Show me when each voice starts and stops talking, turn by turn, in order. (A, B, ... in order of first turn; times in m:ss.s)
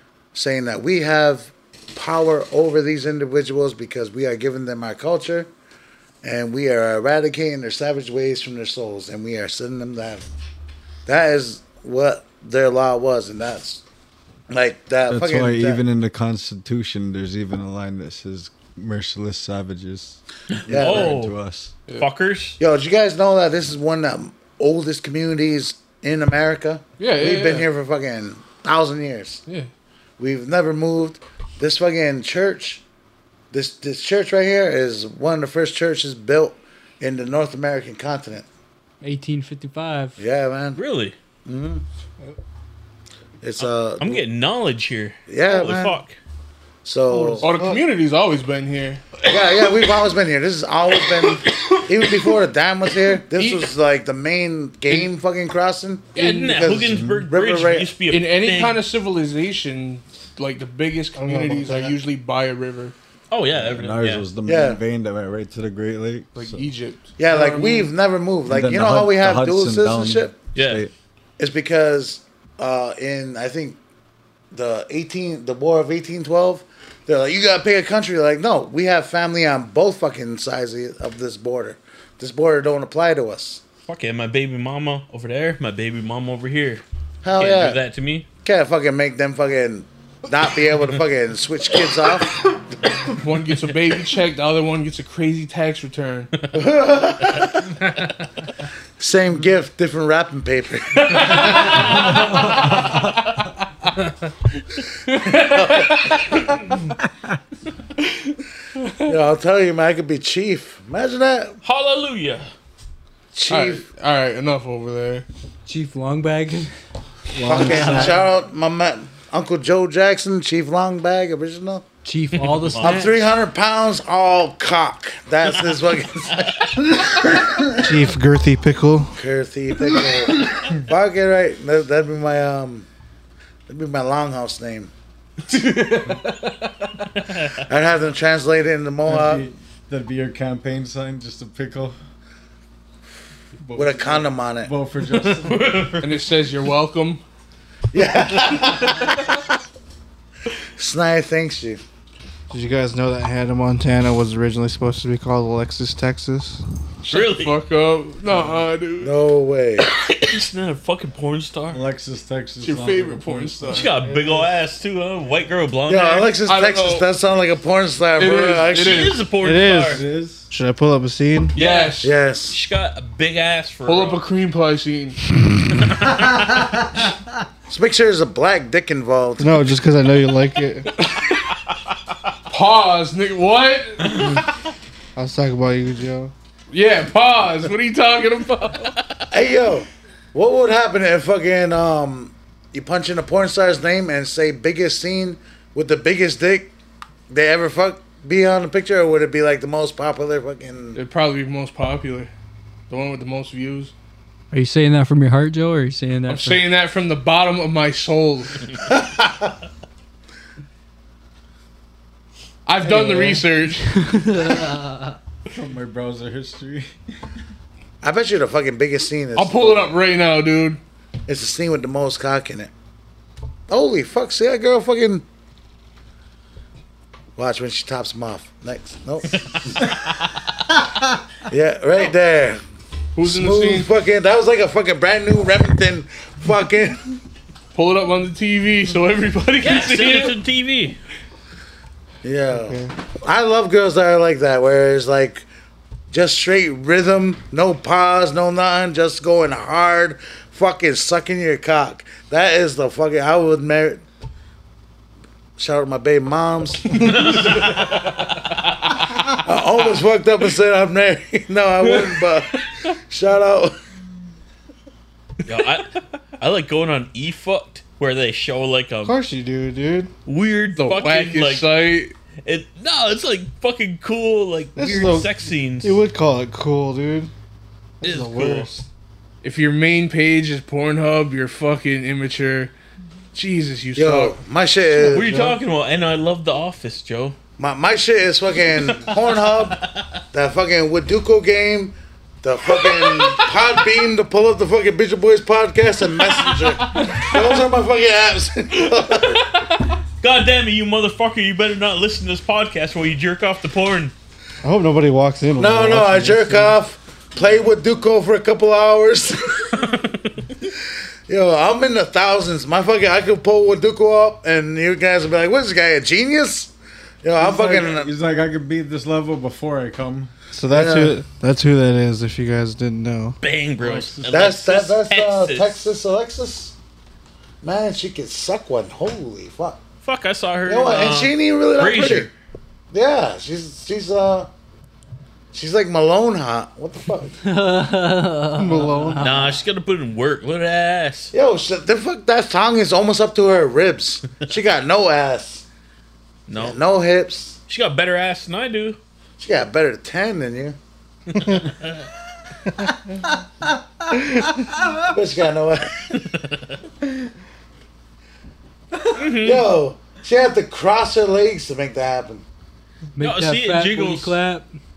0:00.4-0:05.5 A
0:06.2-0:10.2 A
0:11.1-0:13.8 A
0:14.5-0:15.8 A
0:15.1-0:21.7 B
0:20.6-0:21.4 C
0:20.7-0:21.2 A
0:21.9-0:22.6 C
0:22.6-0:29.4 A
0:27.0-0:27.7 D
0:30.2-0:32.8 A
0:33.5-0:38.5 A
0:39.0-0:40.2 E
0:40.2-0:40.8 A
0:40.8-0:41.1 C
0:41.4-0:41.8 A
0:43.4-0:44.2 A
0:43.6-0:46.2 C
0:45.3-0:46.0 A
0:46.8-0:47.5 A
0:47.1-0:49.0 D
0:47.4-0:47.8 F
0:49.2-0:58.0 A
0:53.3-0:53.7 D
0:56.1-0:56.7 D
0:56.1-0:58.8 C
0:58.1-1:03.0 D
1:01.2-1:02.0 F
1:03.3-1:04.3 C
1:03.5-1:06.6 B
1:04.4-1:04.8 A
1:06.4-1:07.9 D
1:07.2-1:10.4 A
1:08.4-1:10.9 B
1:10.6-1:10.8 C
1:11.4-1:13.8 A
1:14.5-1:23.6 A
1:23.9-1:26.8 C
1:27.2-1:27.8 A
1:27.4-1:28.3 C
1:28.4-1:32.4 A
1:33.2-1:36.3 D
1:36.5-1:37.7 A
1:39.0-1:41.9 A
1:41.2-1:42.6 D
1:41.6-1:42.4 C
1:45.1-1:46.2 D
1:45.3-1:46.6 A
1:49.1-1:51.6 A
1:51.6-1:52.5 C
1:53.3-1:53.8 A
1:53.5-1:55.3 D
1:55.6-1:56.7 E
1:57.4-1:58.2 F
1:57.4-2:01.8 A
1:57.5-1:58.1 B
1:57.6-1:58.1 E
2:02.0-2:03.2 E
2:02.4-2:03.0 C
2:02.8-2:07.8 A
2:07.8-2:09.2 F
2:09.2-2:12.9 A
2:13.7-2:14.9 A
2:15.5-2:16.2 D
2:17.2-2:17.6 C
2:17.6-2:19.5 A
2:19.1-2:22.0 B
2:23.6-2:25.8 B
2:23.7-2:24.7 A
2:25.1-2:26.2 C
2:26.0-2:27.2 D
2:27.9-2:29.3 A
2:28.5-2:29.1 C
2:30.8-2:31.8 A
2:32.5-2:36.6 F
2:37.0-2:39.2 D
2:37.1-2:37.6 C
2:39.0-2:39.9 A
2:39.8-2:41.8 C
2:41.7-2:44.5 B
2:42.6-2:43.9 D
2:43.7-2:46.4 C
2:45.9-2:49.1 A
2:46.4-2:47.1 D
2:48.2-2:49.2 D
2:48.8-2:50.0 C
2:49.4-2:51.6 F
2:49.8-2:50.5 B
2:51.6-2:52.2 D
2:51.6-2:54.2 C
2:52.0-2:52.6 A
2:53.8-2:55.2 D
2:56.1-2:56.7 A
2:57.7-2:59.6 A
2:59.4-3:00.9 F
3:01.0-3:01.3 D
3:02.5-3:04.3 D
3:05.2-3:06.3 F
3:06.7-3:08.9 D
3:09.3-3:16.7 A
3:17.3-3:21.0 A
3:20.9-3:22.3 D
3:22.9-3:23.9 D
3:24.5-3:26.6 E
3:26.3-3:28.7 D
3:28.8-3:29.5 A
3:32.6-3:34.1 D
3:32.8-3:33.4 B
3:34.0-3:34.6 E
3:35.5-3:36.9 B
3:38.0-3:39.9 A
3:39.4-3:40.8 D
3:41.3-3:42.7 A
3:43.7-3:45.2 A
3:47.4-3:50.0 A
3:49.5-3:50.2 C
3:51.5-3:52.6 A
3:53.2-3:53.9 D
3:53.2-3:57.2 A
3:57.7-4:00.4 D
3:59.6-4:01.0 C
4:02.2-4:05.5 A
4:02.5-4:02.9 F
4:06.1-4:14.0 A
4:15.6-4:18.0 A
4:17.0-4:17.9 C
4:19.2-4:23.8 A
4:25.4-4:29.2 C
4:29.0-4:30.1 F
4:30.3-4:31.7 C
4:30.8-4:32.1 D
4:32.4-4:36.0 C
4:34.8-4:37.3 F
4:38.0-4:38.9 F
4:38.0-4:38.7 C
4:39.4-4:42.7 D
4:43.3-4:44.4 D
4:43.9-4:45.6 A
4:45.1-4:45.5 F
4:45.1-4:47.4 C
4:47.6-4:59.6 A
4:48.8-4:49.7 C
4:52.7-4:53.8 C
4:56.2-4:57.6 C
4:58.8-5:04.1 C
5:04.6-5:06.8 F
5:05.6-5:09.9 A
5:09.9-5:10.2 C
5:11.3-5:18.1 A
5:17.4-5:20.3 B
5:20.6-5:23.4 F
5:20.7-5:21.2 A
5:23.4-5:25.8 C
5:23.8-5:24.5 B
5:24.3-5:26.7 A
5:27.6-5:29.8 A
5:30.0-5:32.3 C
5:30.7-5:32.3 A
5:32.9-5:34.5 A
5:35.5-5:37.4 A
5:37.7-5:39.5 E
5:38.6-5:39.3 F
5:39.2-5:41.3 C
5:41.3-5:45.6 A
5:46.5-5:46.8 C
5:46.5-5:47.6 A
5:47.7-5:49.0 C
5:49.4-5:50.8 A
5:51.4-5:52.0 C
5:55.0-5:56.2 A
5:56.1-5:56.7 C
5:59.1-5:59.7 C
5:59.2-6:02.4 A
6:03.2-6:04.7 E
6:03.2-6:04.4 C